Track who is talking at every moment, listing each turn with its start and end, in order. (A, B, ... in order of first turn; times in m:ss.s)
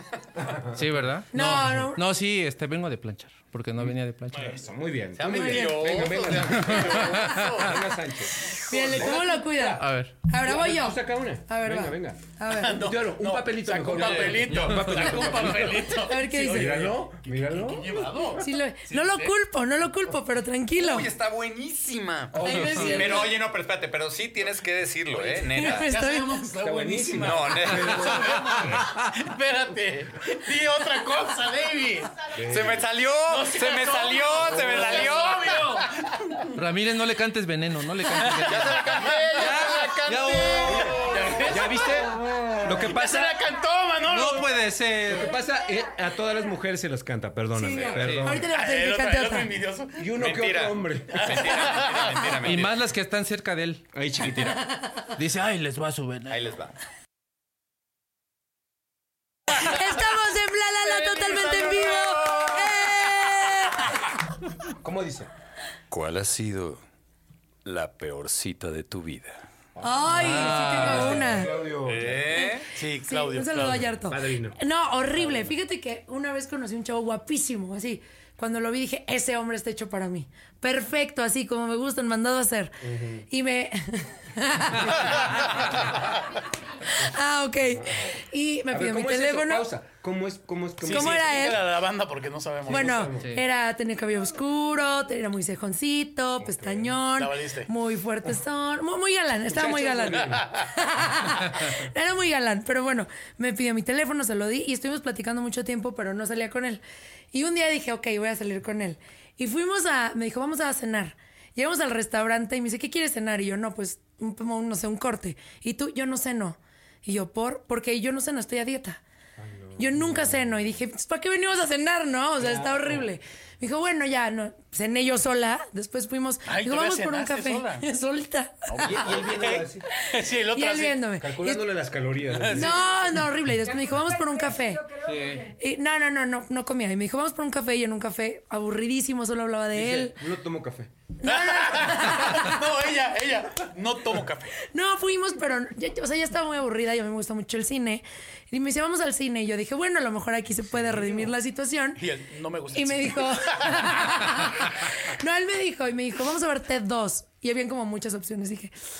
0:00.4-0:01.8 A
0:00.8-0:04.5 B
0:01.3-0:02.0 C
0:03.8-0:18.3 A
0:05.2-0:07.2 D
0:05.3-0:05.6 C
0:05.5-0:07.7 E
0:07.2-0:07.5 B
0:08.7-0:12.9 C
0:09.8-0:10.1 B
0:12.5-0:19.3 E
0:14.6-0:15.2 B
0:16.0-0:16.8 C
0:18.4-0:21.1 C
0:20.8-0:25.9 D
0:22.3-0:23.3 A
0:22.4-0:23.3 C
0:25.1-0:32.2 E
0:25.5-0:26.4 C
0:26.6-0:28.8 A
0:27.2-0:28.3 D
0:32.4-0:32.9 A
0:32.5-0:35.7 D
0:33.3-0:36.4 E
0:34.4-0:35.0 A
0:36.6-0:38.7 B
0:38.2-0:44.6 E
0:38.4-0:41.6 D
0:39.4-0:40.9 B
0:40.6-0:43.4 A
0:41.5-0:42.0 B
0:44.0-0:45.3 B
0:45.0-0:48.5 A
0:47.6-0:49.5 C
0:47.8-0:48.1 D
0:48.0-0:48.4 B
0:48.5-0:50.0 E
0:50.0-0:51.5 A
0:50.2-0:52.7 D
0:51.1-0:52.3 E
0:52.4-0:53.9 B
0:53.9-0:54.6 A
0:54.2-0:54.6 D
0:55.2-0:56.3 B
0:56.3-0:56.7 D
0:59.6-1:03.8 C
1:00.9-1:02.5 E
1:02.3-1:02.7 D
1:04.8-1:05.3 A
1:05.9-1:06.8 D
1:07.6-1:09.4 D
1:09.8-1:12.4 A
1:09.8-1:11.5 C
1:10.1-1:11.4 B
1:11.8-1:12.7 D
1:12.7-1:13.9 E
1:13.0-1:22.8 C
1:13.6-1:14.6 A
1:15.1-1:15.5 A
1:22.8-1:23.3 A
1:23.3-1:25.2 C
1:25.0-1:25.5 E
1:26.8-1:29.7 C
1:27.7-1:28.2 A
1:28.7-1:31.5 A
1:30.8-1:33.1 E
1:30.9-1:31.6 C
1:32.7-1:33.3 A
1:32.7-1:59.0 C
1:36.4-1:37.0 A
1:37.2-1:37.7 E
1:39.6-1:40.4 A
1:40.0-1:40.5 E
1:59.4-2:00.8 A
1:59.8-2:08.7 C
2:02.4-2:03.1 A
2:06.5-2:07.9 E
2:08.7-2:11.0 E
2:08.8-2:09.9 A
2:10.5-2:11.7 C
2:11.2-2:12.9 A
2:12.2-2:12.8 E
2:12.5-2:14.9 C
2:15.0-2:15.4 B
2:15.5-2:20.2 C
2:19.7-2:20.9 A
2:21.2-2:22.5 C
2:21.2-2:24.6 E
2:24.7-2:32.0 C
2:32.0-2:34.8 E
2:32.7-2:38.7 C